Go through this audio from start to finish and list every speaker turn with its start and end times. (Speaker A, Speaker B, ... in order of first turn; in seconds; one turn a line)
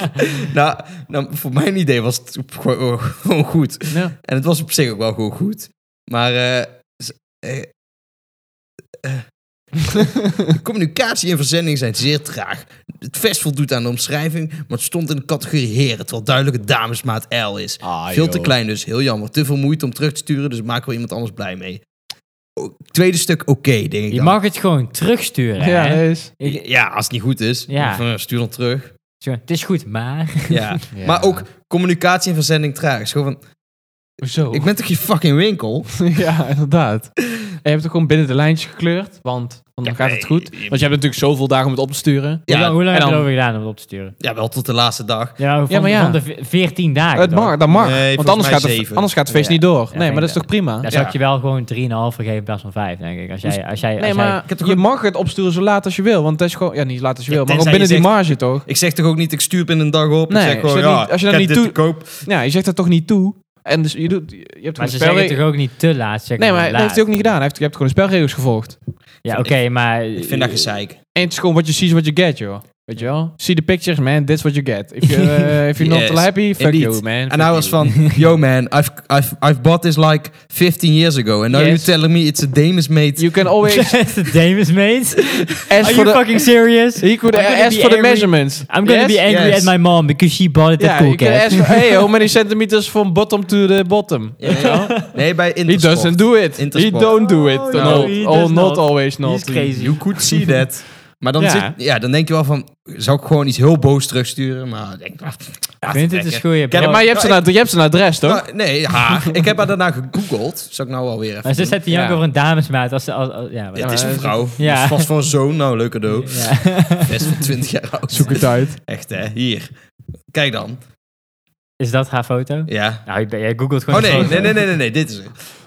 Speaker A: 0.2-7.7
Speaker B: 3.9-4.1
Speaker A: 10.4-21.8
Speaker B: 17.8-18.6
Speaker A: 22.6-24.4
Speaker C: 24.1-26.6
Speaker B: 25.6-26.3
Speaker A: 26.4-28.9
Speaker C: 27.7-28.0
Speaker C: 29.2-30.8
Speaker A: 30.5-33.4
Speaker B: 30.9-31.4
Speaker B: 34.2-34.7
Speaker A: 34.5-36.1
Speaker B: 36.0-43.3
Speaker A: 39.8-40.9
Speaker A: 42.5-42.8
Speaker C: 42.5-44.1
Speaker A: 44.2-45.4
Speaker C: 45.4-47.6
Speaker B: 45.7-46.2
Speaker B: 47.1-50.9
Speaker A: 47.7-49.1
Speaker C: 49.3-54.4
Speaker A: 50.9-51.1
Speaker B: 54.0-58.7
Speaker A: 54.5-54.8
Speaker A: 57.3-62.3
Speaker B: 60.3-65.4
Speaker C: 64.8-67.2
Speaker B: 66.4-68.8
Speaker C: 69.2-70.7
Speaker A: 69.2-71.0
Speaker B: 71.1-77.9
Speaker A: 75.8-83.5
Speaker B: 81.5-81.9
Speaker B: 83.2-84.1
Speaker C: 83.6-91.8
Speaker B: 85.7-89.2
Speaker A: 89.3-89.7
Speaker B: 90.8-95.0
Speaker A: 94.4-98.1
Speaker C: 94.5-95.1
Speaker B: 95.7-100.0
Speaker C: 97.1-100.5
Speaker A: 99.7-107.5
Speaker B: 101.4-101.7
Speaker C: 105.9-107.1
Speaker B: 106.7-109.3
Speaker A: 108.2-111.8
Speaker C: 111.4-115.1
Speaker B: 111.9-112.2
Speaker A: 113.8-119.7
Speaker B: 113.8-114.5
Speaker C: 116.2-117.1
Speaker B: 118.1-118.8
Speaker A: 120.3-120.8
Speaker C: 121.8-124.6
Speaker A: 122.7-123.1
Speaker A: 123.9-125.5
Speaker B: 124.2-124.5